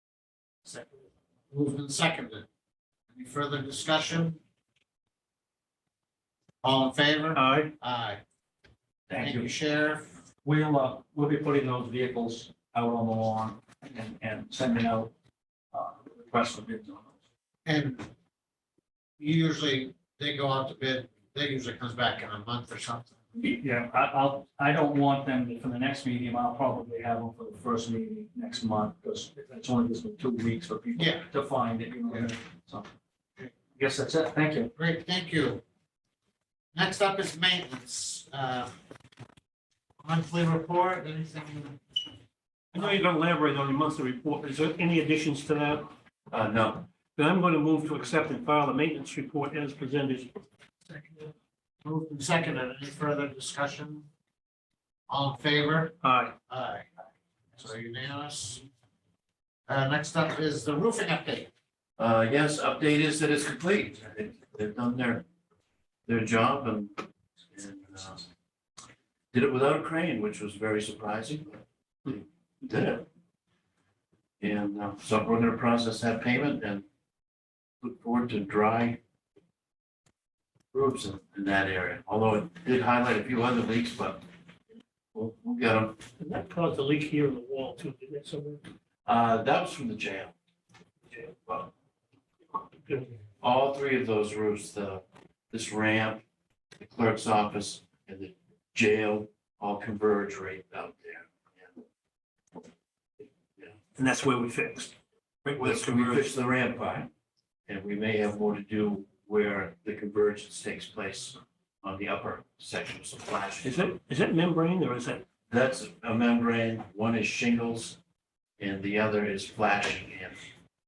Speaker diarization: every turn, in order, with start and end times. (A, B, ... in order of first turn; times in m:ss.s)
0:00.6-0:02.4 A
0:03.1-0:04.4 A
0:06.6-0:08.2 A
0:07.3-0:07.7 B
0:09.1-0:10.2 A
0:09.1-0:09.5 C
0:10.4-0:15.1 C
0:15.7-0:17.1 C
0:17.6-0:18.1 A
0:19.2-0:23.2 A
0:23.4-0:32.9 C
0:30.9-0:31.3 A
0:32.1-0:32.3 A
0:33.8-0:34.7 C
0:34.7-0:35.6 A
0:36.7-0:38.7 A
0:40.0-0:42.1 A
0:42.7-0:45.9 B
0:46.3-0:46.8 D
0:47.2-0:50.3 B
0:51.8-0:54.0 A
0:55.1-0:56.0 A
0:56.0-0:56.3 B
0:56.5-0:56.9 A
0:57.5-0:58.7 A
0:59.7-1:01.5 A
1:02.0-1:05.2 D
1:06.0-1:08.3 D
1:09.3-1:13.0 D
1:14.4-1:16.8 D
1:17.8-1:19.0 D
1:20.7-1:24.2 D
1:25.1-1:26.0 D
1:26.2-1:28.6 B
1:29.0-1:30.3 D
1:31.1-1:31.3 B
1:32.8-1:33.2 B
1:33.4-1:36.2 D
1:36.8-1:41.8 D
1:43.9-1:46.3 B
1:45.6-1:47.1 D
1:47.7-1:53.9 D
1:53.6-1:55.2 B
1:55.5-1:58.0 D
1:58.6-2:00.5 D